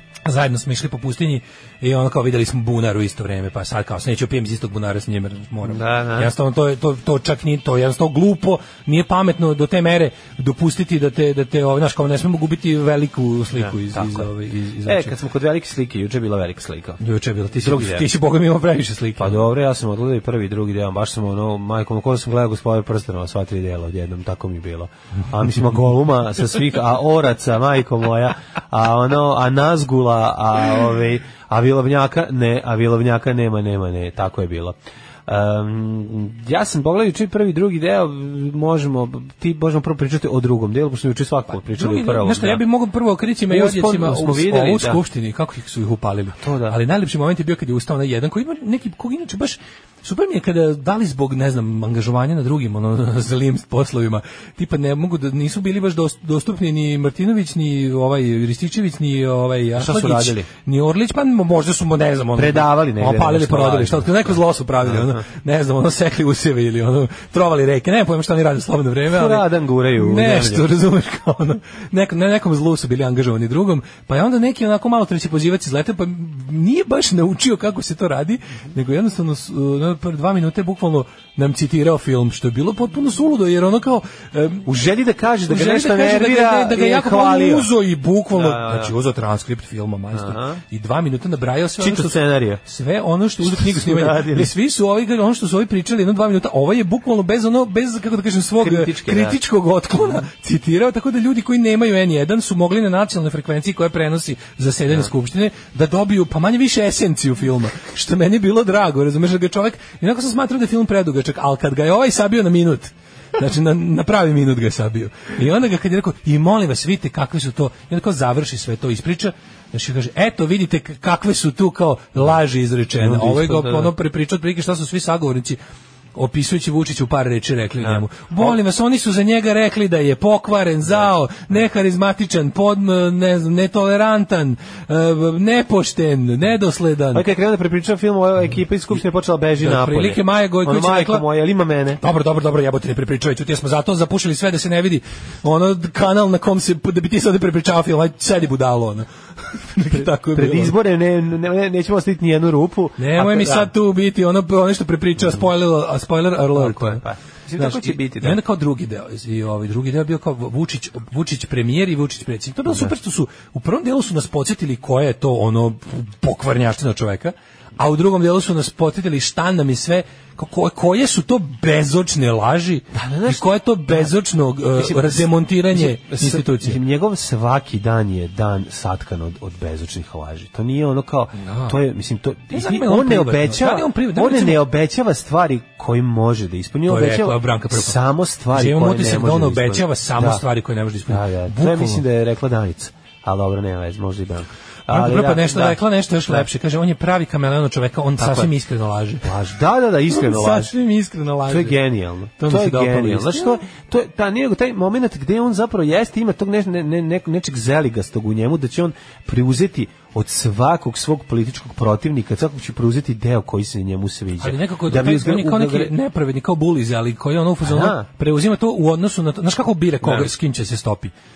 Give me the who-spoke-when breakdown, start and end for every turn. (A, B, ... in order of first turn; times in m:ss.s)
0:00.2-0:15.2 A
0:05.6-0:06.3 B
0:13.5-0:17.0 B
0:17.0-0:19.4 A
0:17.6-0:18.1 B
0:19.2-0:42.6 B
0:41.7-1:24.7 A
0:43.5-0:45.0 B
0:46.4-0:46.8 B
0:59.8-1:00.5 B
1:02.4-1:05.2 B
1:09.1-1:10.7 B
1:24.7-1:27.7 B
1:25.5-2:05.6 A
1:28.3-1:28.9 B
1:30.1-1:30.6 B
1:31.8-1:32.6 B
1:33.4-1:34.5 B
1:38.6-1:39.4 B
2:03.0-2:03.9 B
2:06.2-2:17.2 A
2:07.8-2:08.6 B
2:17.1-2:22.0 B
2:19.6-2:21.3 A
2:22.0-2:30.8 A
2:29.9-2:33.7 B
2:33.0-2:37.0 A
2:36.5-2:38.4 B
2:37.6-2:56.8 A
2:52.9-2:54.2 B
2:54.7-3:10.4 B
3:01.4-3:01.8 A
3:02.5-3:04.6 A
3:06.9-3:08.0 A
3:08.5-3:12.0 A
3:11.1-3:16.5 B
3:14.9-3:19.3 A
3:18.2-3:18.5 B
3:19.2-3:20.8 B
3:20.1-3:21.8 A
3:21.5-3:35.9 B
3:22.4-3:23.6 A
3:34.4-3:41.1 A
3:37.6-3:38.1 B
3:40.0-3:40.3 B